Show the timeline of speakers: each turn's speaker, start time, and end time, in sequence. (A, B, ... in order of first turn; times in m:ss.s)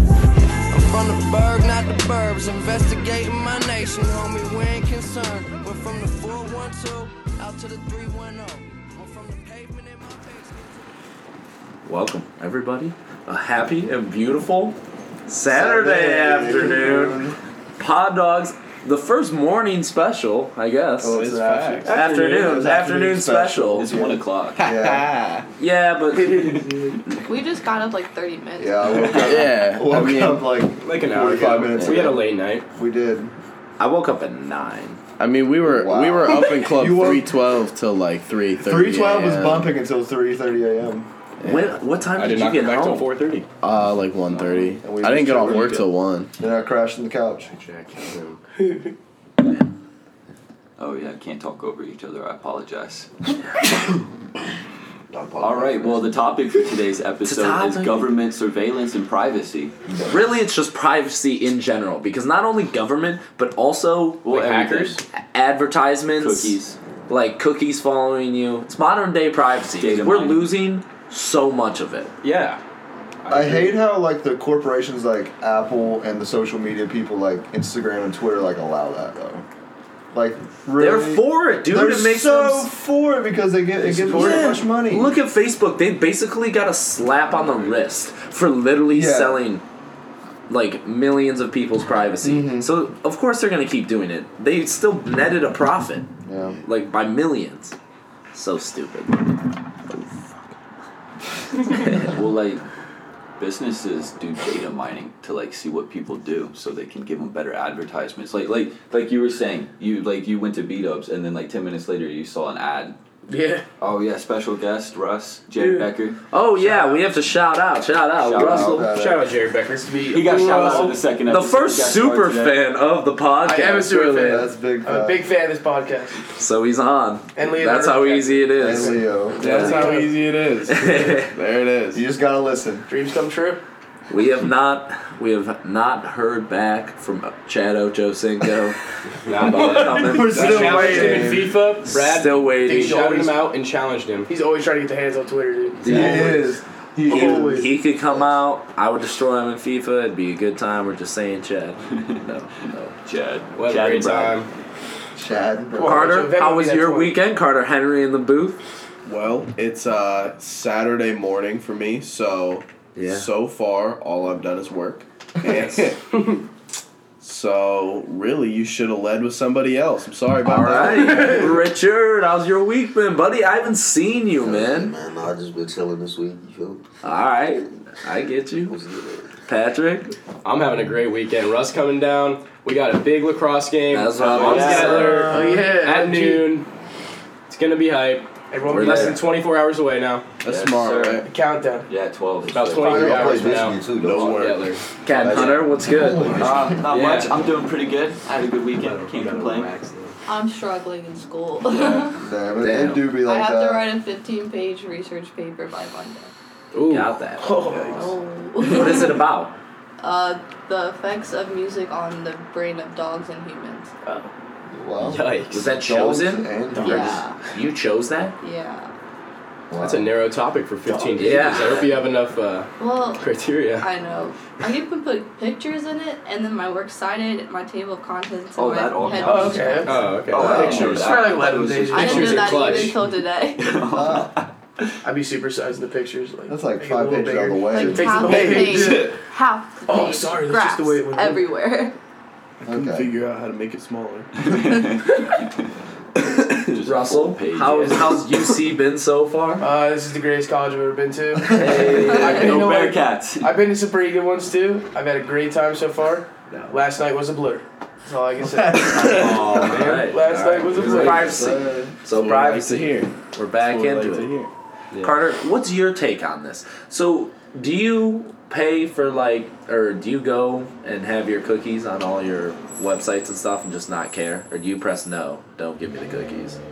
0:00.7-0:10.8 A
0:11.9-0:14.8 B
0:15.3-0:17.2 B
0:15.5-0:17.4 C
0:17.8-0:21.2 B
0:21.0-0:25.1 C
0:21.1-0:22.0 D
0:21.9-0:23.9 B
0:23.8-0:24.6 E
0:24.6-0:25.5 D
0:25.6-0:26.6 B
0:26.1-0:27.0 F
0:26.2-0:27.2 E
0:27.2-0:29.2 G
0:28.6-0:32.2 C
0:28.9-0:29.3 E
0:29.2-0:30.5 D
0:30.8-0:32.6 H
0:32.7-0:33.4 C
0:33.8-0:35.0 B
0:35.2-0:39.7 D
0:35.6-0:37.3 C
0:38.6-0:41.1 C
0:41.4-0:41.8 D
0:41.4-0:43.1 B
0:42.2-0:43.5 H
0:43.6-0:46.3 D
0:44.4-0:47.5 C
0:47.5-0:48.4 B
0:48.6-0:48.9 F
0:50.8-0:53.1 E
0:55.1-0:56.1 I
0:55.4-0:59.8 E
0:57.2-0:58.1 B
0:59.9-1:00.3 I
1:00.1-1:12.1 B
1:04.2-1:05.0 E
1:04.5-1:04.9 H
1:06.2-1:06.8 E
1:09.8-1:10.5 E
1:12.2-1:12.6 H
1:13.2-1:13.8 H
1:13.3-1:19.4 C
1:20.1-1:25.2 C
1:20.8-1:22.7 B
1:23.9-1:24.4 H
1:24.1-1:29.6 B
1:28.9-1:29.4 C
1:30.5-1:36.1 B
1:32.2-1:32.7 C
1:36.2-1:36.6 C
1:36.6-1:37.8 B
1:38.3-1:40.3 B
1:41.6-1:42.2 B
1:41.9-1:42.6 E
1:43.4-1:53.0 E
1:53.3-1:53.6 F
1:53.8-1:56.2 E
1:55.6-1:55.9 F
1:56.3-1:58.9 B
1:56.6-1:57.0 F
1:58.2-1:58.8 E
1:58.4-1:59.3 C
1:58.8-2:00.9 H
1:59.8-2:01.0 F
2:00.1-2:02.6 E
2:01.3-2:04.3 B
2:03.4-2:06.2 F
2:04.1-2:05.3 C
2:06.4-2:09.9 B
2:07.4-2:10.2 F
2:08.6-2:09.6 C
2:09.4-2:12.0 D
2:10.7-2:11.3 B
2:11.9-2:12.9 C
2:12.9-2:13.6 F
2:14.1-2:18.8 B
2:19.2-2:24.3 H
2:19.3-2:23.1 B
2:20.0-2:21.6 C
2:22.6-2:23.5 F
2:24.3-2:26.4 F
2:25.8-2:26.4 B
2:25.8-2:27.7 C
2:27.0-2:27.7 F
2:27.1-2:32.9 B
2:33.0-2:34.4 E
2:33.6-2:34.5 H
2:35.2-2:36.2 C
2:35.7-2:37.2 F
2:35.8-2:38.6 B
2:39.0-2:46.1 D
2:43.0-2:43.3 B
2:47.2-2:51.5 D
2:50.4-2:55.0 B
2:51.1-2:51.4 F
2:54.4-2:56.9 I
2:57.0-2:58.8 B
2:58.7-2:59.3 I
2:59.5-3:00.1 B
3:00.4-3:06.7 H
3:03.9-3:05.3 B
3:04.2-3:05.2 E
3:04.5-3:06.6 F
3:04.9-3:05.7 C
3:07.5-3:10.3 H
3:08.5-3:09.2 F
3:08.7-3:09.2 B
3:10.4-3:11.3 D
3:10.5-3:11.3 E
3:11.2-3:11.9 F
3:11.9-3:13.5 E
3:12.5-3:14.5 I
3:12.5-3:14.8 H
3:13.9-3:14.8 D
3:15.0-3:16.5 B
3:15.1-3:16.8 I
3:15.3-3:15.6 E
3:15.8-3:16.9 C
3:16.3-3:19.7 E
3:16.9-3:17.4 H
3:18.8-3:20.2 H
3:20.3-3:22.2 G
3:21.7-3:22.2 E
3:22.2-3:23.8 C
3:22.6-3:23.0 I
3:23.1-3:26.3 G
3:26.7-3:27.1 H
3:26.9-3:27.5 B
3:27.4-3:28.1 F
3:27.7-3:28.0 D
3:27.8-3:29.2 G
3:28.6-3:29.6 B
3:30.0-3:33.9 G
3:34.0-3:34.3 F
3:34.7-3:37.2 C
3:35.0-3:35.7 H
3:35.5-3:38.4 B
3:36.7-3:37.2 H
3:36.8-3:37.4 G
3:38.4-3:38.9 G
3:39.7-3:40.1 C
3:39.8-3:43.9 H
3:41.2-3:41.9 B
3:42.8-3:43.2 G
3:43.8-3:50.2 G
3:48.6-3:53.0 E
3:49.2-3:52.5 F
3:49.8-3:53.0 H
3:51.9-3:53.8 G
3:53.6-3:54.5 E
3:53.9-3:54.3 C
3:55.0-3:59.2 F
3:56.5-3:58.6 C
3:57.7-4:02.0 G
3:58.3-3:58.9 D
3:59.9-4:01.4 F
4:02.6-4:03.1 C
4:02.7-4:04.5 D
4:04.4-4:05.7 E
4:06.4-4:08.2 E
4:06.8-4:09.7 B
4:09.6-4:21.3 F
4:11.6-4:13.5 E
4:11.6-4:12.3 B
4:11.9-4:12.6 G
4:16.5-4:16.8 B
4:18.8-4:19.8 D
4:19.1-4:21.6 E
4:19.2-4:24.3 B
4:21.2-4:22.0 C
4:22.1-4:24.5 D
4:24.9-4:25.2 H
4:25.0-4:36.6 B